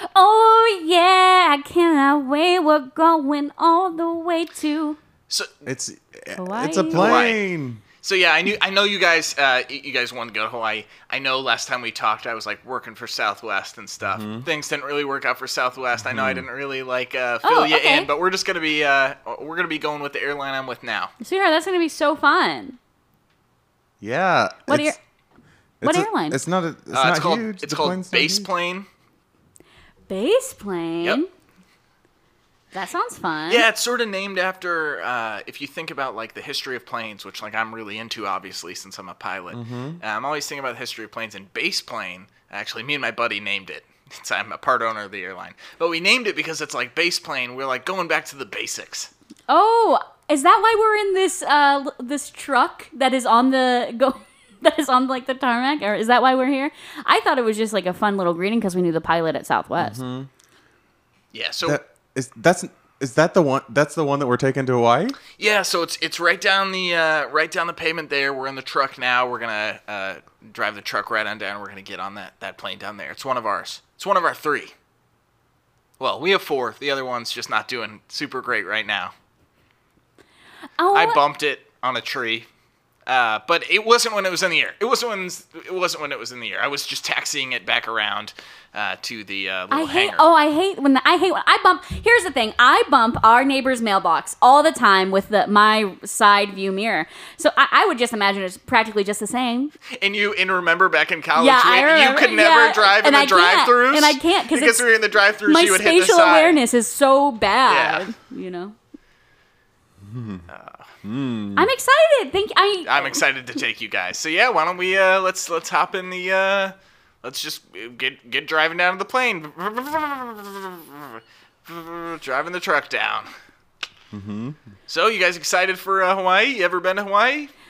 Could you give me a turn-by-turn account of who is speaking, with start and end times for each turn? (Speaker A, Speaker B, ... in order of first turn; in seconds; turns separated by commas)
Speaker A: 0.1-5.0, Speaker B: 5.7-7.8, Speaker A: 6.3-7.2, Speaker C: 6.9-7.5, Speaker C: 8.0-21.1, Speaker B: 14.1-14.5, Speaker B: 16.1-16.5, Speaker A: 17.4-18.1, Speaker A: 21.2-22.8, Speaker B: 24.0-24.9, Speaker A: 24.7-25.0, Speaker B: 25.8-28.5, Speaker A: 25.8-26.4, Speaker C: 26.9-28.9, Speaker A: 30.1-31.3, Speaker A: 32.7-33.6, Speaker C: 33.5-49.1, Speaker B: 39.5-40.0, Speaker A: 49.5-60.0, Speaker B: 59.8-60.3, Speaker C: 61.3-61.8, Speaker B: 61.6-65.2, Speaker C: 65.4-74.7, Speaker C: 76.0-79.1, Speaker A: 80.8-81.2, Speaker C: 80.9-82.5, Speaker C: 83.1-90.3, Speaker A: 89.7-99.7, Speaker C: 99.9-106.6, Speaker A: 101.4-104.9, Speaker A: 105.5-108.8, Speaker C: 107.7-108.1, Speaker B: 110.0-110.5, Speaker C: 110.5-110.9, Speaker B: 111.0-111.7, Speaker A: 111.6-113.2, Speaker C: 112.8-123.3, Speaker B: 124.1-124.6, Speaker C: 124.9-127.5